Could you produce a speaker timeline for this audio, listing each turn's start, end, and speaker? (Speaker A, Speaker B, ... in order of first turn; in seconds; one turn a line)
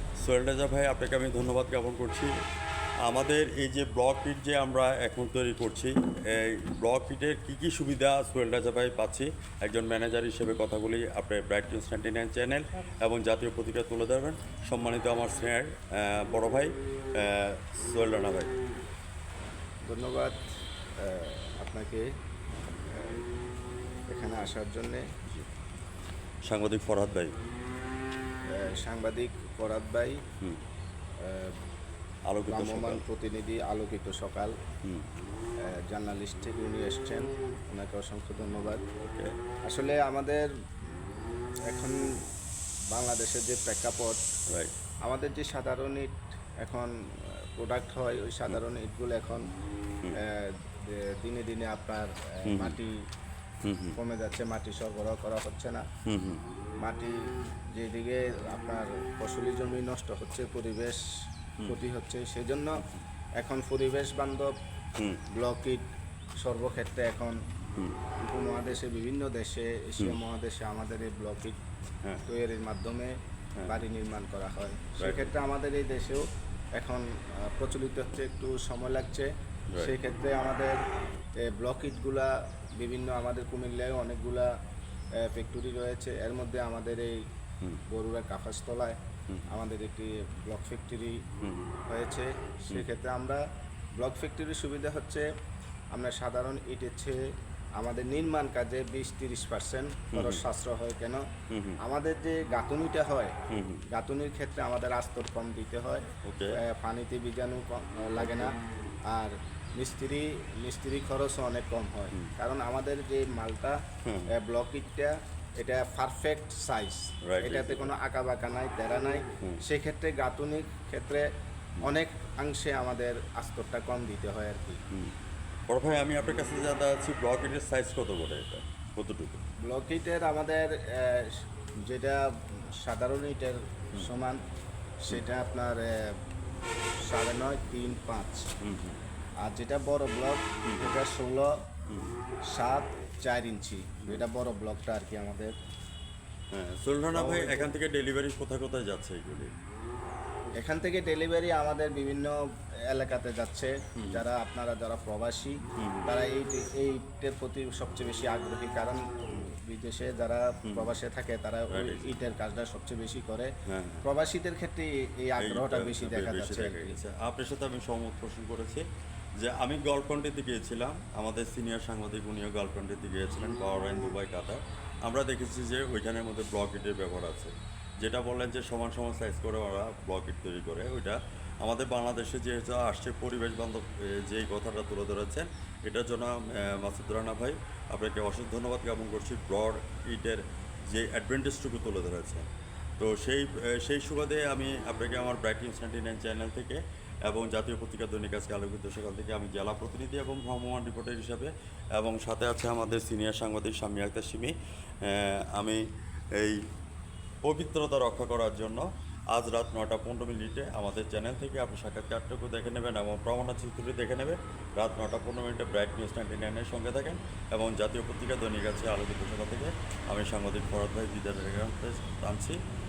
Speaker A: 0.2-2.3
Speaker A: 3.0-18.5
Speaker B: 19.9-20.4
Speaker B: 21.0-22.1
Speaker B: 22.9-23.2
Speaker B: 24.1-25.1
Speaker A: 26.5-27.3
Speaker B: 28.5-30.2
Speaker B: 31.2-31.6
Speaker A: 32.3-33.0
Speaker B: 32.5-34.5
Speaker B: 35.9-38.8
Speaker A: 39.0-39.3
Speaker B: 39.7-40.5
Speaker B: 41.7-42.0
Speaker B: 42.9-44.2
Speaker B: 45.1-46.9
Speaker B: 47.6-49.5
Speaker B: 50.2-53.0
Speaker A: 52.5-52.8
Speaker A: 53.6-54.0
Speaker B: 54.0-55.9
Speaker A: 56.1-56.4
Speaker B: 56.8-57.1
Speaker B: 57.8-61.0
Speaker B: 61.7-62.8
Speaker B: 63.4-64.5
Speaker B: 65.3-65.8
Speaker B: 66.4-67.4
Speaker B: 68.2-71.6
Speaker B: 72.2-76.2
Speaker A: 75.0-75.3
Speaker B: 76.8-80.8
Speaker B: 81.5-84.5
Speaker B: 85.2-87.2
Speaker B: 87.9-89.0
Speaker B: 89.5-91.2
Speaker A: 91.4-91.7
Speaker B: 91.9-93.4
Speaker B: 94.0-95.3
Speaker B: 95.9-97.2
Speaker B: 97.8-101.2
Speaker A: 100.1-100.4
Speaker A: 101.5-101.8
Speaker B: 101.8-103.3
Speaker A: 103.5-103.9
Speaker B: 103.9-108.6
Speaker A: 106.2-106.6
Speaker B: 109.1-113.8
Speaker A: 114.0-114.3
Speaker B: 114.3-121.3
Speaker A: 117.2-117.9
Speaker B: 121.8-124.8
Speaker A: 124.9-125.2
Speaker A: 125.7-129.4
Speaker B: 129.7-134.4
Speaker B: 135.0-136.1
Speaker B: 137.1-138.5
Speaker A: 138.6-139.0
Speaker B: 139.4-141.6
Speaker A: 140.6-140.9
Speaker A: 141.9-142.1
Speaker B: 142.5-145.6
Speaker A: 146.5-149.5
Speaker B: 147.1-147.7
Speaker B: 150.6-152.3
Speaker B: 152.9-163.5
Speaker A: 154.0-154.3
Speaker A: 155.8-156.1
Speaker A: 160.7-160.9
Speaker A: 161.7-162.2
Speaker A: 163.7-164.1
Speaker B: 164.0-167.0
Speaker A: 165.4-168.8
Speaker A: 169.4-192.4
Speaker A: 193.0-205.8
Speaker A: 207.4-222.6